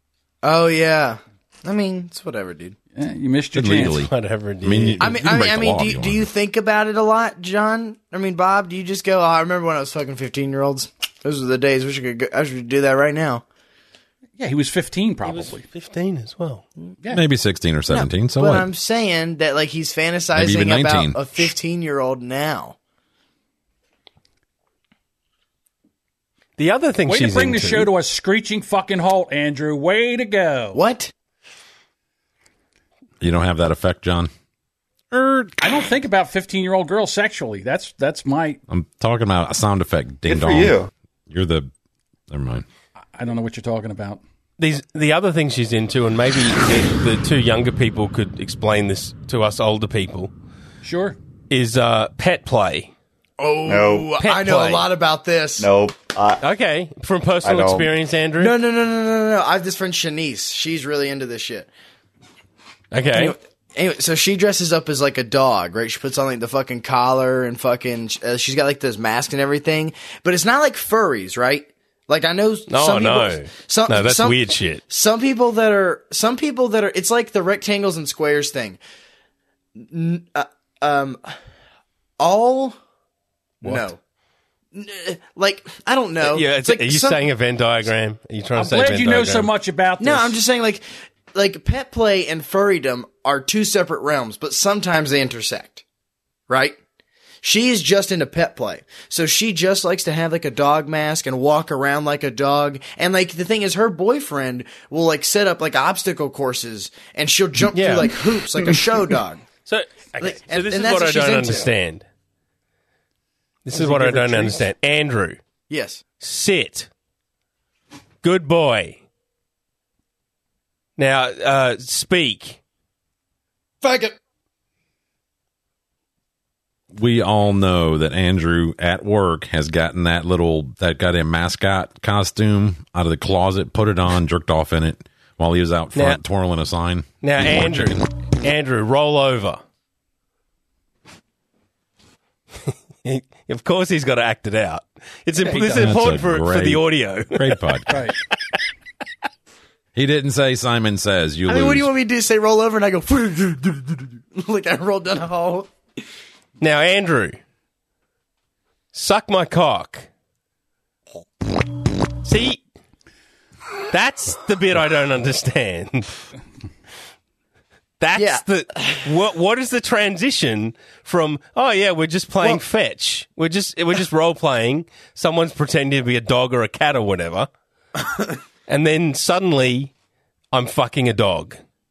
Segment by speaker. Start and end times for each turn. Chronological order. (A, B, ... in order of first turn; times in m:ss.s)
0:00.4-0:02.8 A
0:03.0-0:04.0 B
0:03.5-0:04.1 C
0:03.8-0:05.2 D
0:04.6-0:06.3 C
0:05.0-0:13.4 A
0:14.4-0:15.6 B
0:15.2-0:16.6 D
0:17.1-0:18.7 C
0:17.9-0:22.8 A
0:20.4-0:21.5 C
0:26.6-0:27.9 D
0:27.1-0:30.8 B
0:30.7-0:31.1 A
0:33.2-0:34.3 C
0:35.1-0:35.6 C
0:35.6-0:38.6 B
0:38.7-0:40.8 C
0:40.3-0:40.9 E
0:41.3-0:41.7 C
0:42.3-0:42.6 C
0:43.2-0:44.2 B
0:44.6-0:50.3 D
0:50.8-0:51.2 B
0:51.5-0:52.9 D
0:53.4-0:55.7 A
0:53.7-0:54.1 E
0:54.2-0:54.9 D
0:55.6-0:56.4 E
0:56.4-0:58.5 D
0:57.4-0:57.9 E
0:58.4-1:01.7 A
1:02.9-1:03.4 D
1:03.1-1:18.8 A
1:12.7-1:14.8 D
1:19.8-1:21.4 A
1:22.2-1:22.8 A
1:23.6-1:24.0 A
1:23.6-1:23.9 D
1:24.7-1:27.2 A
1:26.2-1:29.5 D
1:28.6-1:30.4 B
1:30.0-1:35.8 A
1:36.5-1:36.8 A
1:37.4-1:49.4 A
1:47.7-1:48.1 D
1:49.7-1:52.0 D
1:50.2-1:51.7 A
1:53.6-1:55.4 D
1:53.7-1:54.6 B
1:55.7-1:56.0 A
1:56.2-1:56.9 D
1:58.2-1:59.0 D
2:01.0-2:02.6 D
2:03.8-2:04.2 A
2:06.9-2:18.1 C
2:16.0-2:16.2 D
2:17.2-2:19.6 D
2:22.7-2:28.0 D
2:25.4-2:25.9 B
2:25.7-2:28.0 C
2:27.9-2:28.2 B
2:30.0-2:31.9 C
2:31.5-2:35.7 A
2:36.6-2:37.4 D
2:38.9-2:40.1 D
2:42.2-2:42.6 D
2:43.9-2:46.2 D
2:48.0-2:57.5 D
2:48.1-2:49.1 A
2:58.7-2:59.9 D
3:00.5-3:01.6 D